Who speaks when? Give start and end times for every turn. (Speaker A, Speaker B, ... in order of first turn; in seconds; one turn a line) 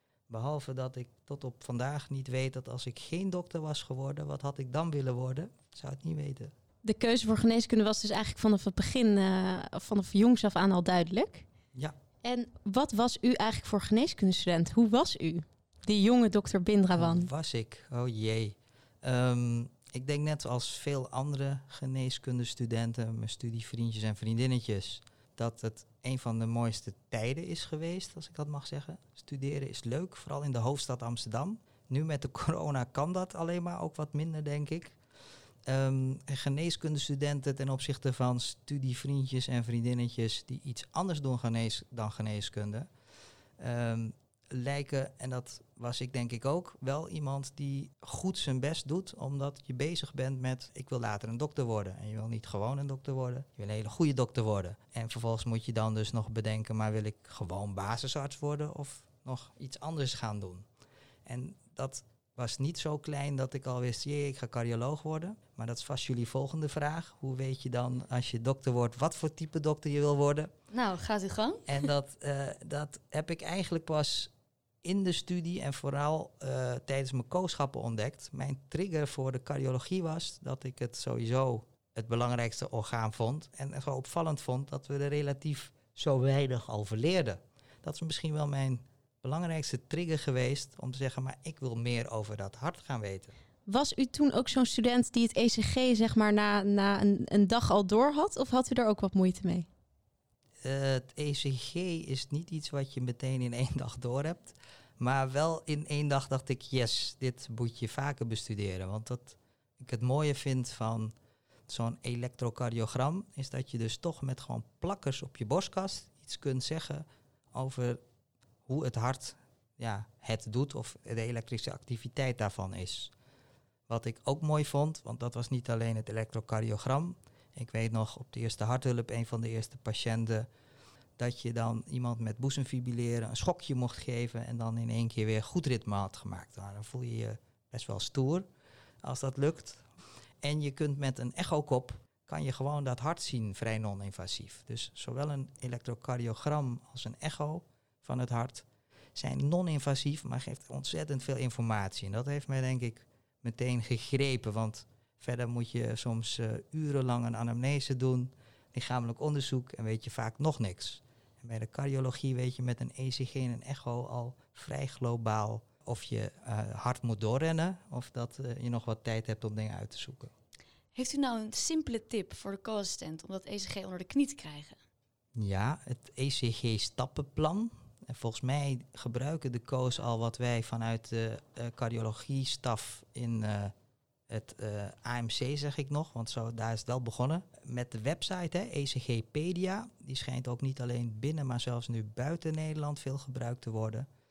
Speaker A: 0.3-6.5
Speaker B: 6.8-11.4
Speaker B: 12.2-17.3
Speaker A: 16.9-35.0
Speaker A: 35.7-42.9
Speaker A: 43.6-60.6
Speaker A: 61.2-70.5
Speaker C: 70.7-71.8
Speaker A: 71.7-74.3
Speaker A: 74.8-93.3
Speaker B: 93.7-99.7
Speaker A: 100.6-111.1
Speaker A: 111.7-118.0
Speaker A: 118.7-123.1
Speaker A: 123.9-130.5
Speaker A: 131.2-138.4
Speaker A: 139.0-139.8
Speaker A: 140.4-170.3
Speaker C: 170.9-174.8
Speaker A: 175.4-183.7
Speaker A: 184.3-194.1